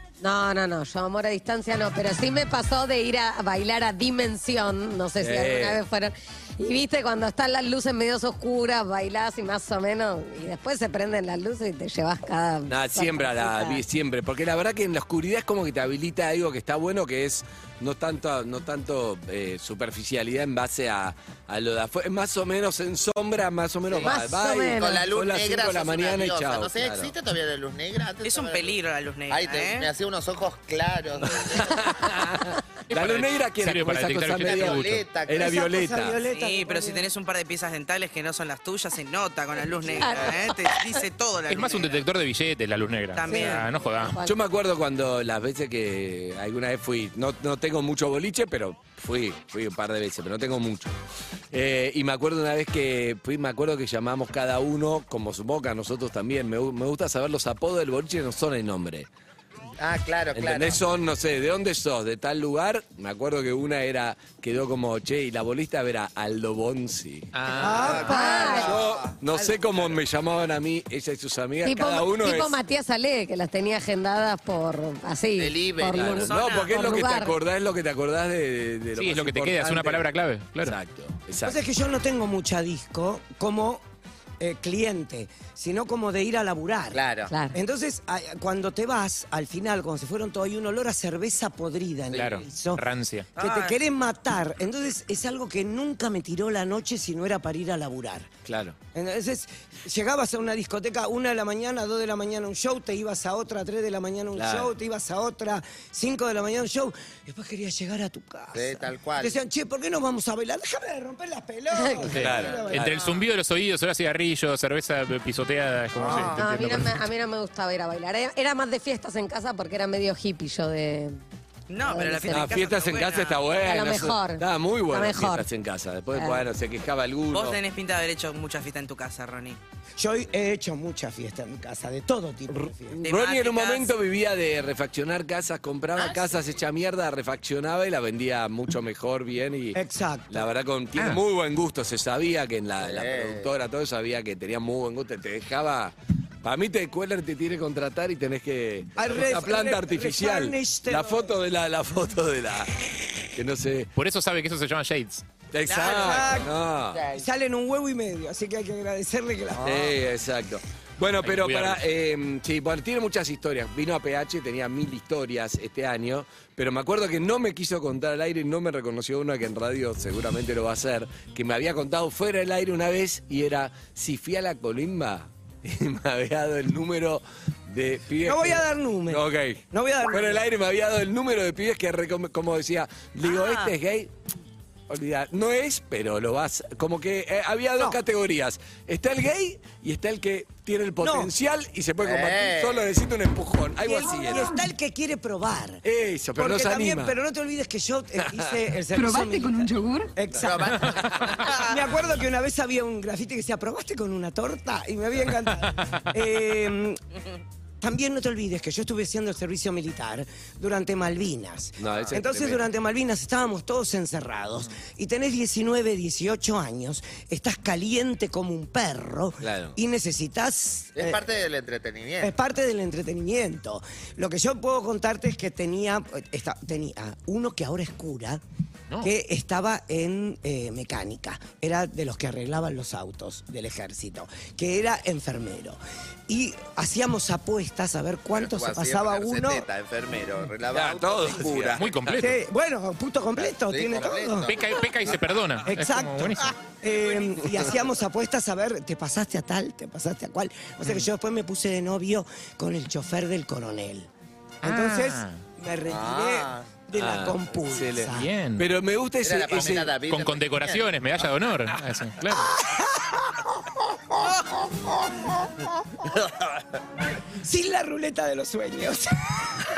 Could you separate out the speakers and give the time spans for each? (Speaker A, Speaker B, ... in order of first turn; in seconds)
Speaker A: 0.2-13.8, 24.0-25.0, 40.0-40.4, 68.0-68.8, 71.6-77.3, 87.3-87.6, 111.7-112.1, 116.3-121.2, 121.8-122.6, 123.6-125.5, 126.1-126.4
Speaker B: 5.2-5.8, 12.7-27.1, 31.4-36.2, 44.2-50.9, 51.5-59.1, 60.3-67.3, 68.5-72.6, 75.9-80.1, 80.6-81.6, 98.5-98.8, 104.3-104.7, 112.1-112.9, 122.3-127.6, 132.5-153.9, 155.5-157.1, 159.6-184.1, 184.9-194.6, 195.8-197.2, 198.2-198.6, 211.8-212.6, 219.4-219.8, 240.7-242.2, 256.9-259.9
Speaker C: 23.9-24.2, 24.8-28.8, 29.3-31.8, 34.4-35.6, 59.8-60.8, 67.6-69.2, 75.4-76.7, 86.9-87.3, 92.1-92.4, 108.5-109.4, 115.9-116.5, 135.9-136.5, 142.8-143.5, 156.9-157.3, 192.0-192.9, 200.4-201.7, 220.9-222.3, 238.3-241.9, 243.3-245.3, 255.9-256.7, 259.2-261.3, 264.8-265.2, 266.0-266.6
Speaker D: 28.2-29.9, 36.3-42.0, 43.1-43.7, 76.3-76.6, 93.4-93.7, 121.7-123.4, 127.3-129.6, 133.0-133.9, 155.7-156.4, 183.2-183.7
Speaker E: 32.9-35.1, 41.5-44.2, 67.3-68.1, 79.0-80.8, 92.1-93.3, 112.1-117.0, 153.9-155.2, 161.2-161.8, 200.8-201.3, 241.8-242.4, 244.5-246.5, 254.6-255.4, 258.1-258.7, 259.9-262.5
Speaker F: 35.3-37.1, 43.3-43.6, 67.5-68.8, 81.4-83.8, 84.4-87.0, 87.5-98.3, 98.9-113.0, 130.0-133.0, 139.7-140.5, 149.0-151.3, 155.8-156.5, 157.1-160.0, 178.2-180.4, 191.0-191.3, 193.8-195.8, 196.3-200.8, 201.6-207.0, 207.8-221.2, 222.2-228.4, 229.0-239.7, 242.2-244.6, 245.7-254.1, 254.6-258.3, 262.5-263.4, 267.4-269.5